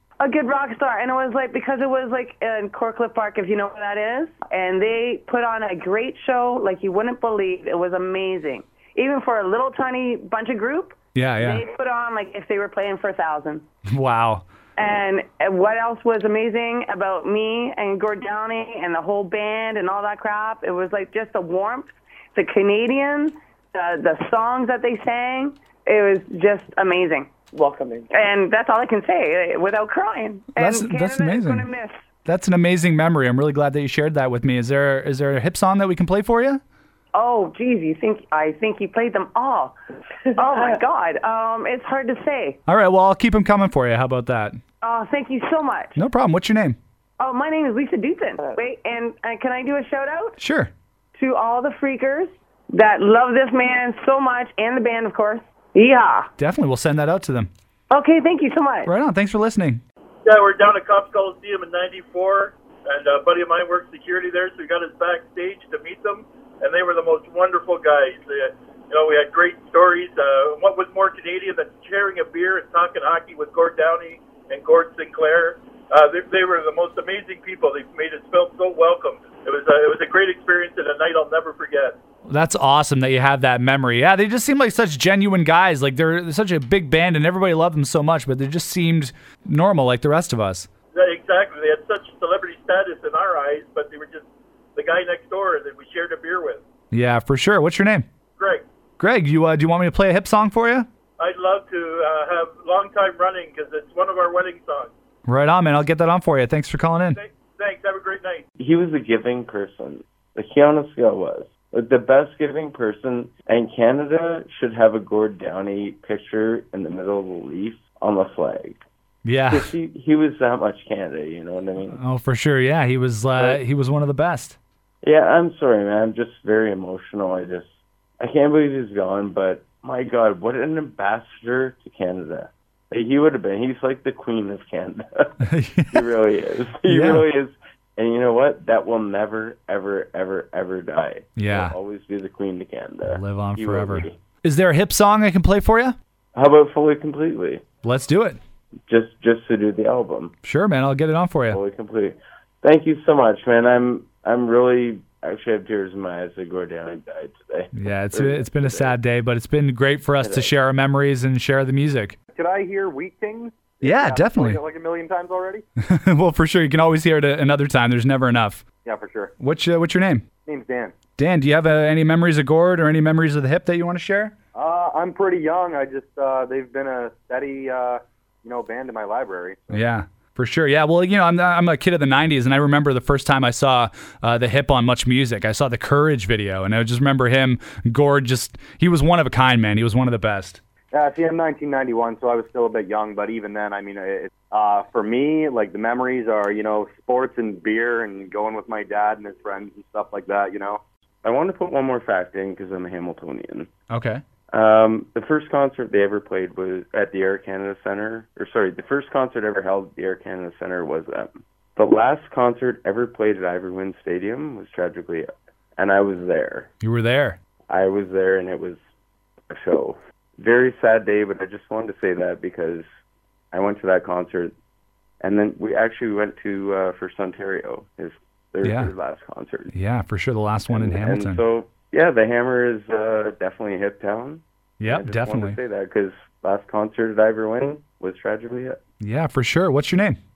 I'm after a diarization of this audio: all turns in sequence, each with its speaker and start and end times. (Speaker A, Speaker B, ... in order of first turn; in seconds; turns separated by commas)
Speaker A: 0.2-13.6, Speaker B: 11.2-11.6, Speaker B: 13.9-14.4, Speaker A: 14.8-27.5, Speaker A: 28.1-32.0, Speaker B: 30.6-31.7, Speaker B: 32.3-36.6, Speaker A: 37.1-39.8, Speaker A: 40.3-42.6, Speaker B: 42.7-44.6, Speaker A: 44.8-46.0, Speaker B: 46.0-46.8, Speaker A: 47.2-50.4, Speaker B: 50.4-50.7, Speaker A: 51.1-56.3, Speaker B: 56.4-57.5, Speaker A: 57.9-58.9, Speaker B: 58.9-59.8, Speaker C: 60.3-82.0, Speaker B: 82.3-90.7, Speaker C: 90.9-96.6, Speaker B: 96.9-98.1, Speaker C: 98.4-98.6, Speaker B: 99.0-100.9, Speaker C: 101.2-104.9, Speaker B: 105.3-107.2, Speaker C: 107.1-108.4, Speaker D: 108.6-118.8, Speaker B: 119.2-119.7, Speaker D: 119.5-122.0, Speaker B: 121.9-124.6, Speaker D: 125.0-135.1, Speaker B: 135.4-136.0, Speaker D: 135.9-144.2, Speaker B: 136.9-137.2, Speaker B: 141.4-141.7, Speaker B: 143.1-146.0, Speaker D: 146.3-147.6, Speaker B: 147.8-148.4, Speaker D: 148.9-150.3, Speaker B: 150.4-151.6, Speaker D: 151.5-159.0, Speaker B: 157.8-162.2, Speaker D: 160.2-160.5, Speaker E: 162.3-165.6, Speaker B: 163.8-164.6, Speaker B: 165.8-168.6, Speaker E: 168.8-169.3, Speaker B: 169.4-170.2, Speaker E: 170.4-171.0, Speaker B: 171.2-174.3, Speaker E: 174.5-179.8, Speaker B: 179.7-190.6, Speaker E: 190.9-200.8, Speaker D: 201.2-203.7, Speaker B: 203.9-204.2, Speaker D: 204.5-216.7, Speaker B: 216.8-217.4, Speaker D: 217.7-218.8, Speaker D: 219.5-222.9, Speaker D: 223.5-224.5, Speaker D: 225.2-229.7, Speaker B: 228.6-228.9, Speaker B: 229.7-231.4, Speaker D: 230.7-238.8, Speaker B: 234.8-235.6, Speaker B: 239.0-240.2